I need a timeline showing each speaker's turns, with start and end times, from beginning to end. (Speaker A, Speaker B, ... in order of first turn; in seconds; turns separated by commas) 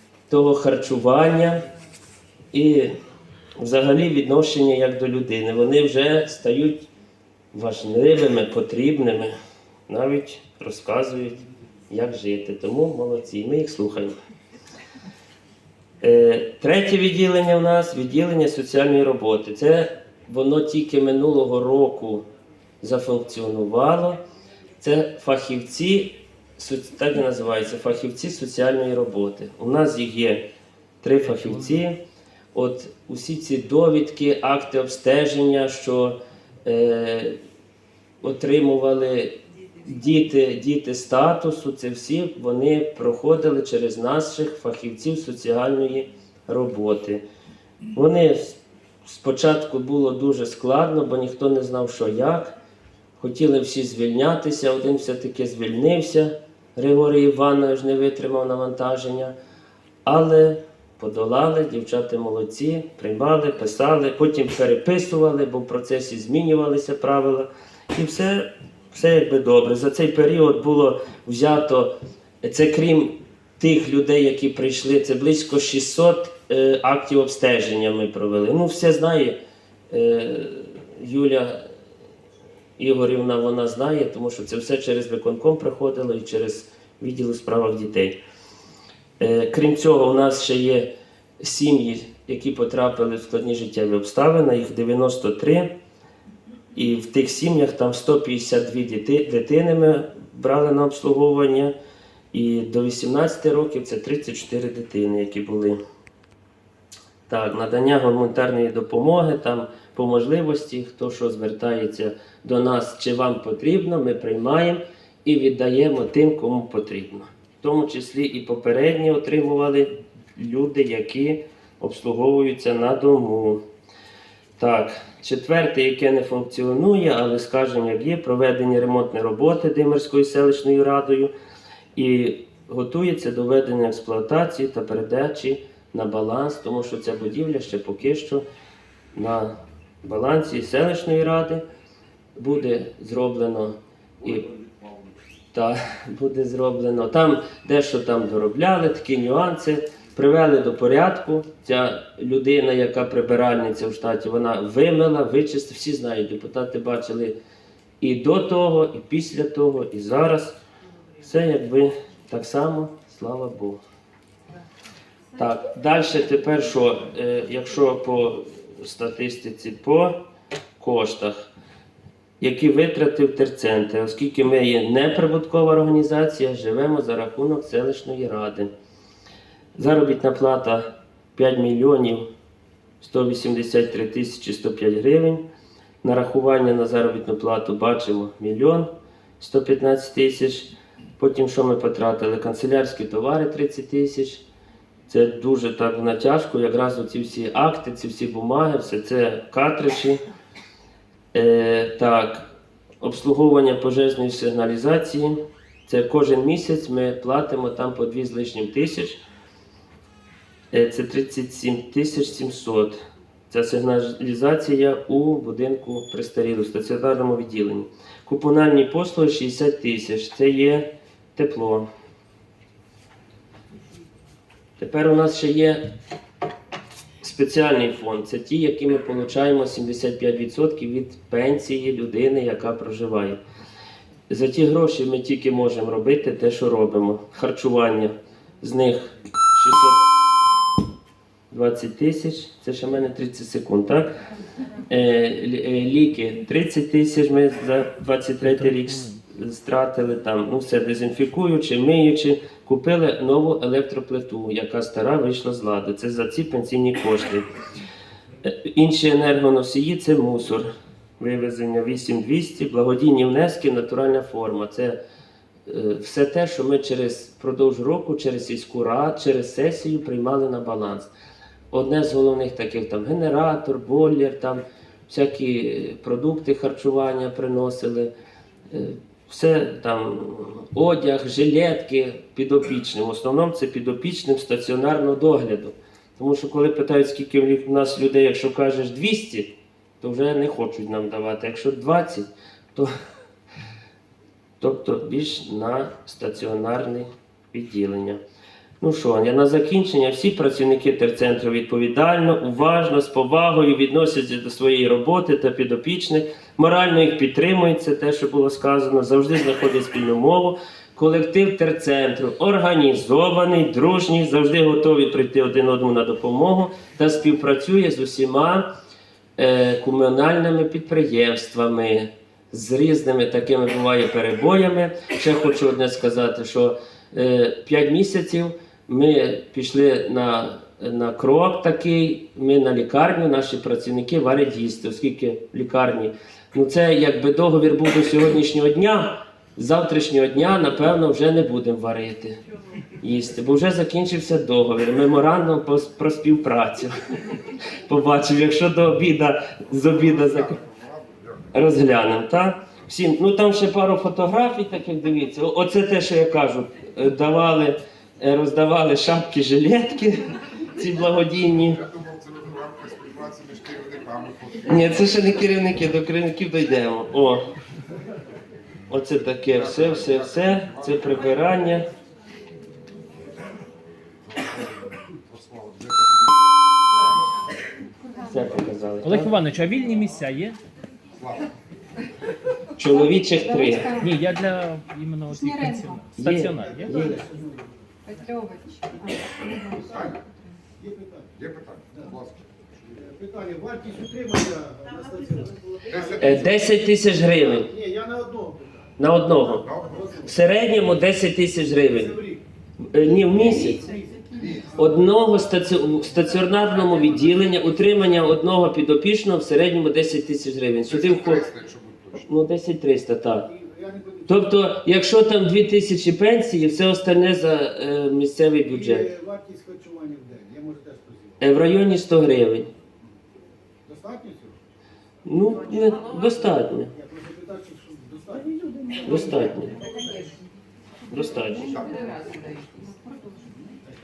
Speaker A: 0.3-1.6, Speaker A: 2.5-2.9, Speaker A: 3.6-6.9, Speaker A: 7.5-9.3, Speaker A: 9.9-14.1, Speaker A: 16.0-22.2, Speaker A: 22.8-24.2, Speaker A: 24.8-30.4, Speaker A: 31.0-32.0, Speaker A: 32.5-37.4, Speaker A: 38.2-47.2, Speaker A: 48.0-52.5, Speaker A: 53.2-59.3, Speaker A: 60.0-79.4, Speaker A: 79.9-81.6, Speaker A: 82.8-88.2, Speaker A: 89.2-95.7, Speaker A: 96.8-101.7, Speaker A: 102.3-105.8, Speaker A: 107.3-123.6, Speaker A: 124.6-131.3, Speaker A: 132.0-138.4, Speaker A: 139.1-141.6, Speaker A: 142.4-144.5, Speaker B: 144.5-145.1, Speaker A: 145.5-157.3, Speaker A: 158.0-160.6, Speaker A: 161.2-163.8, Speaker A: 165.4-170.2, Speaker A: 170.8-171.5, Speaker A: 172.4-178.7, Speaker A: 179.8-182.3, Speaker A: 183.0-185.4, Speaker A: 186.0-188.9, Speaker A: 189.4-194.4, Speaker A: 195.1-200.2, Speaker A: 201.3-202.5, Speaker A: 203.0-209.2, Speaker A: 210.7-221.9, Speaker A: 224.8-225.8, Speaker A: 227.2-233.4, Speaker A: 234.3-240.0, Speaker A: 241.5-244.1, Speaker A: 244.9-257.5, Speaker C: 248.6-249.2, Speaker A: 258.6-260.7, Speaker A: 261.2-265.0, Speaker A: 265.7-271.1, Speaker A: 271.7-278.1, Speaker A: 278.7-289.5, Speaker A: 290.0-292.9, Speaker A: 294.6-298.2, Speaker A: 298.8-318.7, Speaker A: 319.4-342.4, Speaker A: 343.0-350.6, Speaker B: 350.3-351.5, Speaker A: 351.5-361.8, Speaker B: 361.8-364.8, Speaker A: 364.7-367.5, Speaker A: 368.9-371.9, Speaker B: 369.8-371.0, Speaker B: 374.3-376.6, Speaker D: 378.0-378.4, Speaker A: 378.2-379.4, Speaker C: 379.0-380.6, Speaker A: 382.8-384.1, Speaker D: 383.4-384.1, Speaker C: 384.0-386.9, Speaker D: 385.3-386.1, Speaker A: 386.2-387.2, Speaker E: 386.6-387.7, Speaker D: 388.1-390.6, Speaker B: 389.9-390.2, Speaker E: 390.8-391.3, Speaker B: 391.4-393.0, Speaker E: 393.1-395.6, Speaker B: 395.9-396.2, Speaker A: 396.0-397.7, Speaker E: 397.7-398.8, Speaker A: 399.0-399.7, Speaker B: 399.6-400.1, Speaker A: 400.2-402.2, Speaker A: 402.9-403.9, Speaker D: 403.7-404.4, Speaker E: 403.9-404.6, Speaker B: 404.4-404.7, Speaker A: 404.8-411.5, Speaker B: 410.9-412.2, Speaker A: 412.2-413.5, Speaker E: 413.6-414.2, Speaker A: 414.3-419.1, Speaker E: 419.0-421.3, Speaker A: 421.4-422.7, Speaker E: 423.9-424.6, Speaker A: 425.3-426.9, Speaker E: 426.9-430.0, Speaker A: 429.0-429.8, Speaker D: 429.8-430.2, Speaker A: 431.1-431.9, Speaker D: 431.2-433.6